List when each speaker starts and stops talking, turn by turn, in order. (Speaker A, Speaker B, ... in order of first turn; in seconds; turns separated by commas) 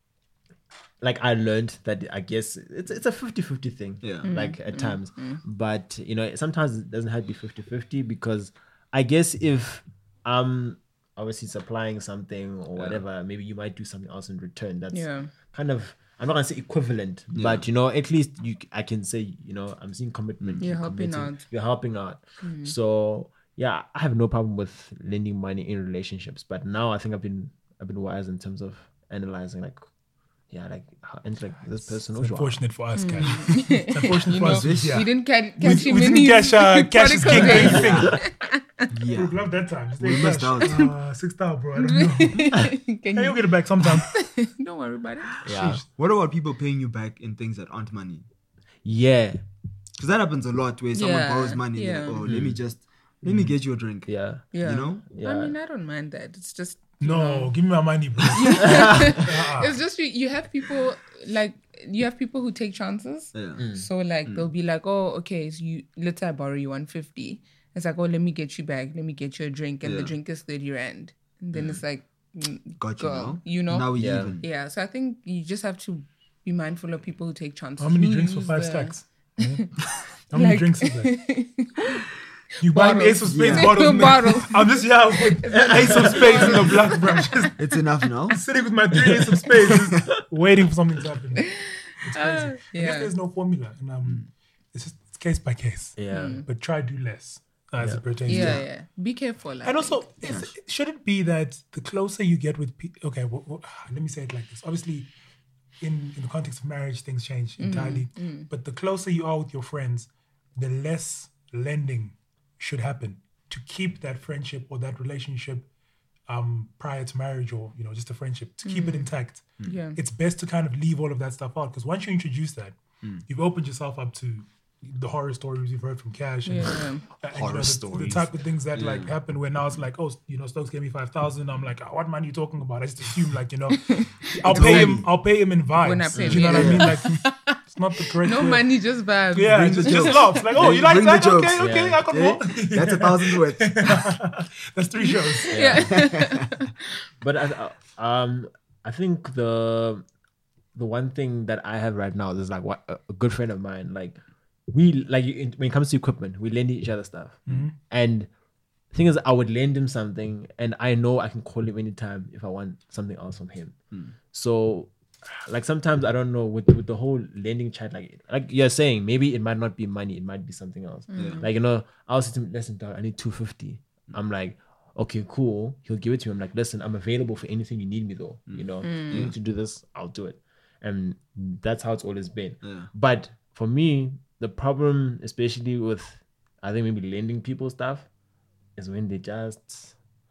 Speaker A: 1.0-29.8, Speaker B: 4.0-4.3, Speaker C: 4.2-5.4, Speaker B: 12.8-13.0, Speaker C: 14.9-15.3, Speaker B: 17.3-17.6, Speaker C: 20.6-21.4, Speaker C: 22.4-22.7, Speaker A: 30.5-32.6, Speaker D: 32.1-38.2, Speaker C: 33.0-38.9, Speaker B: 34.4-35.0, Speaker B: 37.3-38.2, Speaker A: 37.6-38.2, Speaker B: 38.9-39.4, Speaker D: 39.1-42.6, Speaker B: 40.0-40.9, Speaker C: 41.8-45.3, Speaker D: 43.1-44.1, Speaker A: 45.4-45.8, Speaker D: 45.5-45.9, Speaker B: 45.9-48.3, Speaker A: 48.8-49.4, Speaker B: 50.0-54.1, Speaker C: 50.9-52.2, Speaker A: 52.2-52.6, Speaker A: 53.2-53.5, Speaker A: 54.0-54.5, Speaker C: 54.5-57.5, Speaker B: 54.6-55.0, Speaker A: 55.1-55.5, Speaker D: 57.0-59.8, Speaker C: 58.3-79.7, Speaker A: 58.6-59.2, Speaker B: 63.3-63.6, Speaker A: 63.6-63.9, Speaker B: 69.8-70.1, Speaker B: 71.5-71.8, Speaker B: 72.8-74.5, Speaker A: 73.9-74.3, Speaker D: 77.8-79.7, Speaker D: 80.3-81.1, Speaker C: 80.3-82.0, Speaker D: 82.6-87.5, Speaker C: 82.6-87.5, Speaker B: 83.3-84.1, Speaker A: 85.5-86.6, Speaker B: 87.6-88.4, Speaker D: 88.3-91.5, Speaker B: 89.7-90.0, Speaker C: 91.4-93.1, Speaker D: 92.0-98.6, Speaker A: 96.0-96.4, Speaker C: 96.1-96.5, Speaker A: 97.8-98.6, Speaker C: 98.2-100.1, Speaker D: 99.6-105.1, Speaker B: 100.2-100.5, Speaker D: 105.8-115.7, Speaker C: 107.6-108.5, Speaker D: 116.3-138.7, Speaker C: 118.6-119.1, Speaker C: 119.6-120.0, Speaker C: 126.5-127.0, Speaker B: 127.3-129.2, Speaker C: 133.8-134.9, Speaker B: 134.5-135.1, Speaker C: 135.8-137.6, Speaker A: 136.1-136.6, Speaker B: 136.5-136.9, Speaker C: 138.2-140.4, Speaker D: 139.3-145.6, Speaker B: 139.5-143.9, Speaker A: 141.6-142.0, Speaker C: 145.1-146.9, Speaker A: 145.5-146.0, Speaker B: 145.8-146.5, Speaker A: 147.2-150.0, Speaker A: 150.7-154.2, Speaker A: 154.7-158.3, Speaker D: 157.5-157.8, Speaker A: 158.9-163.8, Speaker A: 164.3-188.1, Speaker C: 171.1-171.5, Speaker B: 171.2-171.4, Speaker B: 178.5-179.3, Speaker C: 178.8-179.3, Speaker B: 182.6-182.9, Speaker A: 188.8-189.9